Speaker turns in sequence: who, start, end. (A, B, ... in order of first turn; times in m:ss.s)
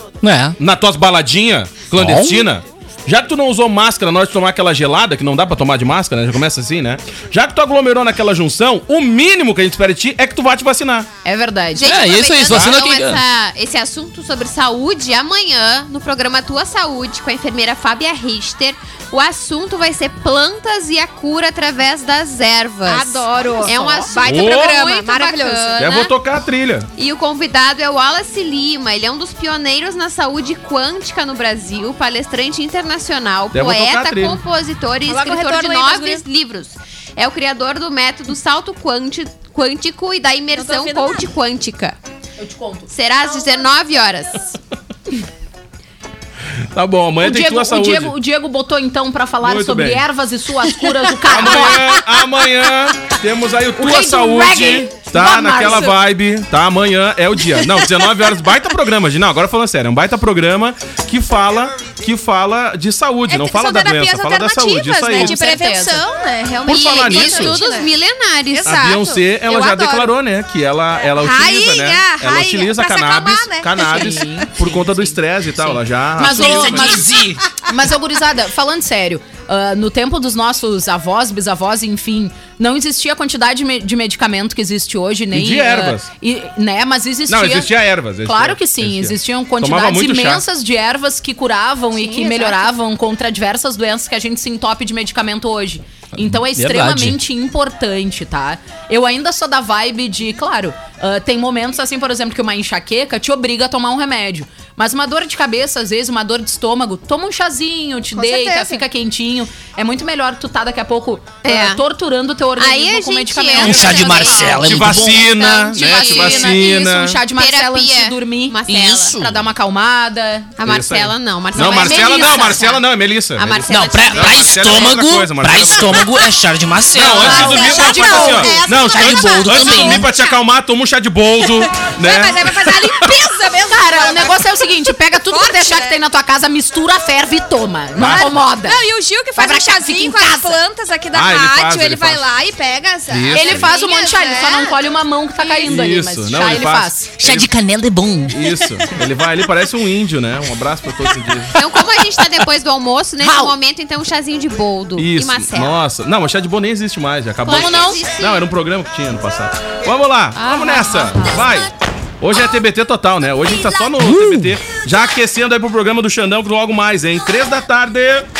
0:00.2-0:00.6 A
0:00.6-0:11.1 B
0:01.9-0:02.5 A
0:11.2-0:11.9 C
0:11.7-0:26.1 D
0:11.8-0:13.2 A
0:12.5-0:12.8 B
0:22.8-0:26.0 E
0:23.5-0:24.1 C
0:24.2-0:24.9 B
0:25.8-0:26.9 B
0:27.0-0:42.0 D
0:33.5-0:34.4 B
0:35.0-0:36.2 E
0:40.5-0:41.3 E
0:42.4-0:43.6 C
0:42.9-0:44.6 D
0:46.7-0:48.1 B
0:47.2-0:52.0 C
0:49.4-0:50.0 B
0:51.2-1:05.4 B
0:53.8-0:55.9 C
1:03.3-1:07.9 E
1:05.1-1:06.0 C
1:06.6-1:08.9 D
1:06.7-1:07.6 B
1:08.5-1:10.1 E
1:08.6-1:17.0 B
1:11.1-1:14.2 E
1:13.8-1:15.2 C
1:16.2-1:27.7 C
1:16.2-1:17.4 A
1:25.3-1:26.1 B
1:27.3-1:30.4 B
1:28.2-1:58.6 C
1:31.9-1:32.7 E
1:36.3-1:37.2 A
1:48.1-1:48.8 E
1:51.4-1:51.8 D
1:52.6-1:56.6 D
1:53.6-1:55.4 A
1:54.6-1:57.2 B
1:57.4-1:59.2 D
1:58.7-1:59.4 A
1:59.1-2:00.6 C
2:00.6-2:04.9 D
2:00.6-2:06.3 B
2:01.6-2:02.7 C
2:03.7-2:10.1 A
2:06.9-2:13.2 B
2:07.1-2:08.5 C
2:07.2-2:08.9 D
2:07.6-2:10.3 E
2:11.6-2:16.0 E
2:13.7-2:18.8 C
2:18.0-2:18.4 B
2:18.0-2:24.8 E
2:19.4-2:20.6 C
2:21.1-2:22.3 B
2:23.1-2:23.7 B
2:23.3-2:27.1 C
2:25.4-2:25.7 E
2:25.6-2:27.5 B
2:27.2-2:28.7 A
2:28.3-2:31.6 B
2:31.5-2:35.8 D
2:33.2-2:33.5 C
2:35.0-2:41.7 B
2:37.4-2:38.4 D
2:37.5-2:38.0 C
2:40.4-2:41.5 D
2:42.2-2:48.3 B
2:44.0-2:44.5 A